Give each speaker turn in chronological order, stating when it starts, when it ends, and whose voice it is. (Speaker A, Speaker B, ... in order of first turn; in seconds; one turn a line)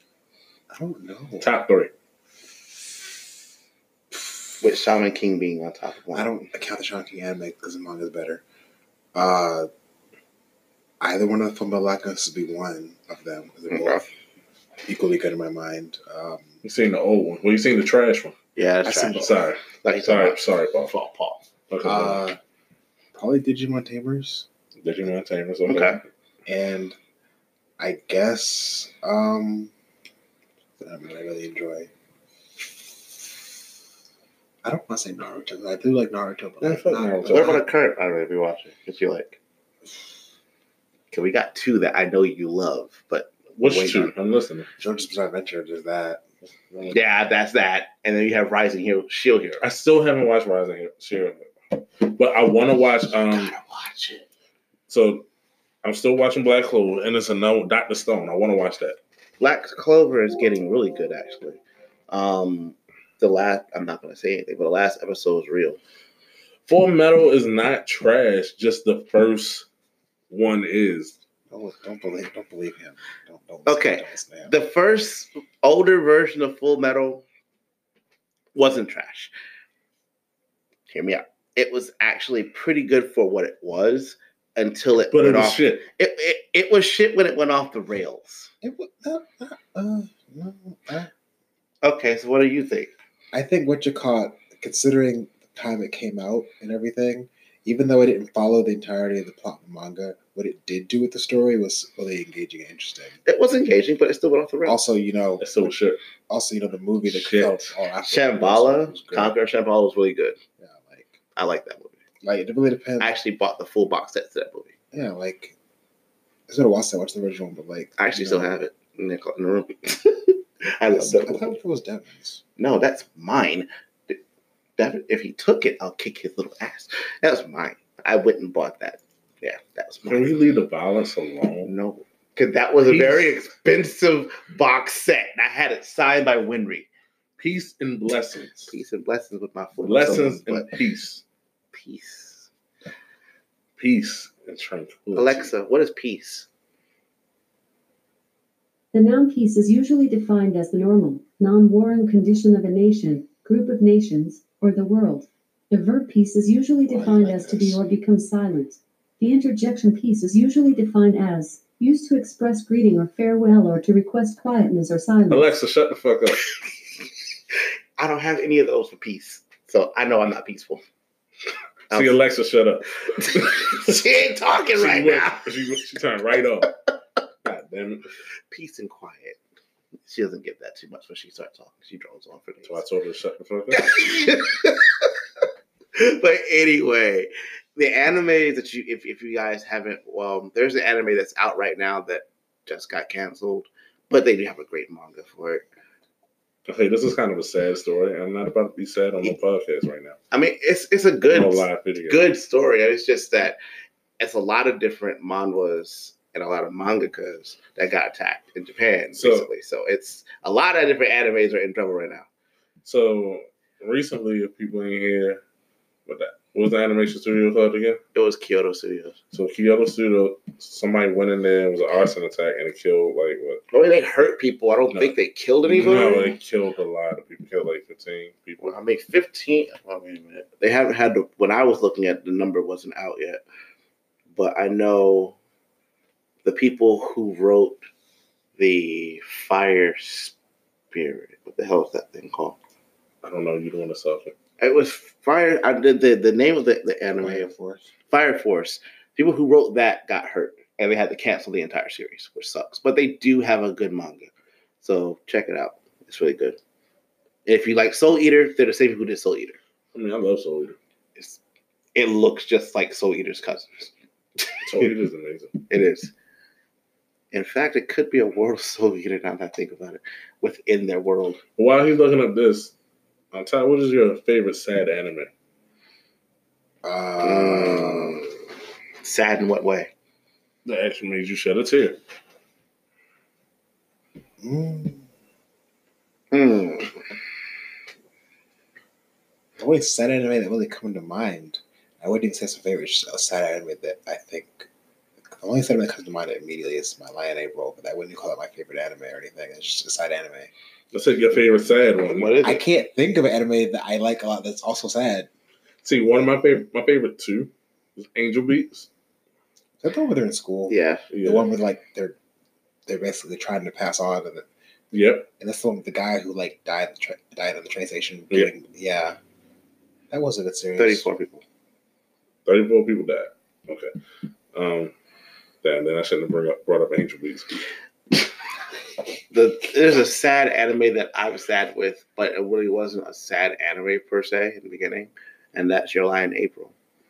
Speaker A: 0.7-1.5
Speaker B: 1.4-1.9
Speaker C: 4.6-6.4
Speaker A: 6.1-8.4
Speaker A: 9.1-9.7
Speaker A: 11.0-14.1
Speaker C: 13.7-14.1
Speaker A: 14.8-16.6
Speaker B: 16.6-18.3
Speaker C: 18.6-21.4
Speaker A: 18.8-19.4
Speaker B: 19.1-20.9
Speaker B: 21.7-22.2
Speaker A: 21.8-22.4
Speaker A: 23.1-24.4
Speaker B: 24.8-26.1
Speaker C: 25.7-26.0
Speaker A: 26.4-27.0
Speaker A: 27.8-29.7
Speaker A: 30.8-31.9
Speaker A: 34.6-37.6
Speaker B: 36.6-37.6
Speaker C: 37.2-39.4
Speaker C: 41.1-44.1
Speaker B: 43.5-44.7
Speaker A: 44.8-46.2
Speaker C: 46.9-49.6
Speaker B: 49.6-53.5
Speaker C: 53.1-54.2
Speaker B: 54.9-55.3
Speaker B: 55.8-59.0
Speaker C: 59.4-61.6
Speaker C: 62.1-65.8
Speaker B: 66.7-69.7
Speaker B: 70.3-71.2
Speaker A: 71.5-74.5
Speaker C: 73.7-77.2
Speaker C: 78.5-79.3
Speaker C: 80.9-88.5
Speaker B: 85.1-85.8
Speaker A: 88.6-91.1
Speaker C: 91.8-92.9
Speaker A: 93.3-103.2
Speaker C: 103.2-104.8
Speaker A: 104.7-105.7
Speaker B: 105.4-106.0
Speaker A: 106.3-109.3
Speaker B: 107.0-107.7
Speaker C: 108.0-110.4
Speaker A: 110.6-111.2
Speaker C: 111.3-112.0
Speaker A: 112.2-113.1
Speaker C: 113.0-114.7
Speaker A: 114.9-115.5
Speaker A: 116.5-118.5
Speaker C: 118.0-121.5
Speaker A: 120.9-122.4
Speaker C: 122.6-124.2
Speaker C: 124.8-130.3
Speaker B: 130.0-131.7
Speaker C: 131.7-136.9
Speaker B: 132.8-133.3
Speaker B: 137.4-138.7
Speaker C: 138.7-140.7
Speaker B: 139.8-141.2
Speaker C: 141.7-142.5
Speaker B: 143.8-145.5
Speaker C: 145.1-146.5
Speaker D: 148.9-165.5
Speaker A: 156.9-157.8
Speaker B: 165.3-166.5
Speaker C: 168.0-170.8
Speaker B: 171.9-174.1
Speaker C: 173.2-175.5
Speaker B: 174.7-176.7
Speaker B: 177.4-178.1
Speaker C: 178.5-179.4
Speaker C: 180.0-182.8
Speaker B: 182.6-184.0
Speaker C: 183.7-195.7
Speaker B: 196.7-200.2
Speaker C: 200.3-203.6
Speaker B: 201.3-202.3
Speaker C: 204.2-212.3
Speaker B: 209.1-209.5
Speaker B: 212.8-215.4
Speaker B: 216.1-218.0
Speaker C: 218.1-219.2
Speaker B: 219.3-223.6
Speaker C: 223.7-226.3
Speaker B: 225.7-228.7
Speaker C: 228.6-233.4
Speaker C: 234.3-235.3
Speaker C: 236.4-237.8
Speaker C: 238.6-240.3
Speaker C: 240.9-242.6
Speaker B: 243.2-244.3
Speaker C: 244.6-247.5
Speaker A: 247.2-247.9
Speaker C: 248.1-256.6
Speaker C: 257.4-259.6
Speaker B: 259.9-260.8
Speaker C: 261.9-263.9
Speaker B: 264.6-265.6
Speaker C: 265.7-266.1
Speaker C: 267.3-271.4
Speaker B: 271.6-272.7
Speaker B: 273.3-275.3
Speaker A: 276.8-278.2
Speaker C: 277.2-278.3
Speaker C: 279.0-279.9
Speaker B: 280.6-282.0
Speaker A: 284.4-285.0
Speaker C: 286.3-287.0
Speaker A: 289.6-294.7
Speaker A: 295.2-300.5
Speaker B: 300.9-302.3
Speaker C: 302.0-302.6
Speaker A: 302.4-305.3
Speaker B: 305.8-308.9
Speaker A: 309.8-312.1
Speaker C: 310.7-311.1
Speaker B: 311.1-311.5
Speaker A: 312.9-314.5
Speaker B: 314.9-315.3
Speaker A: 315.4-319.2
Speaker A: 320.1-321.1
Speaker C: 320.8-321.4
Speaker B: 322.4-323.9
Speaker B: 324.5-324.9
Speaker B: 325.6-327.6
Speaker C: 329.3-336.7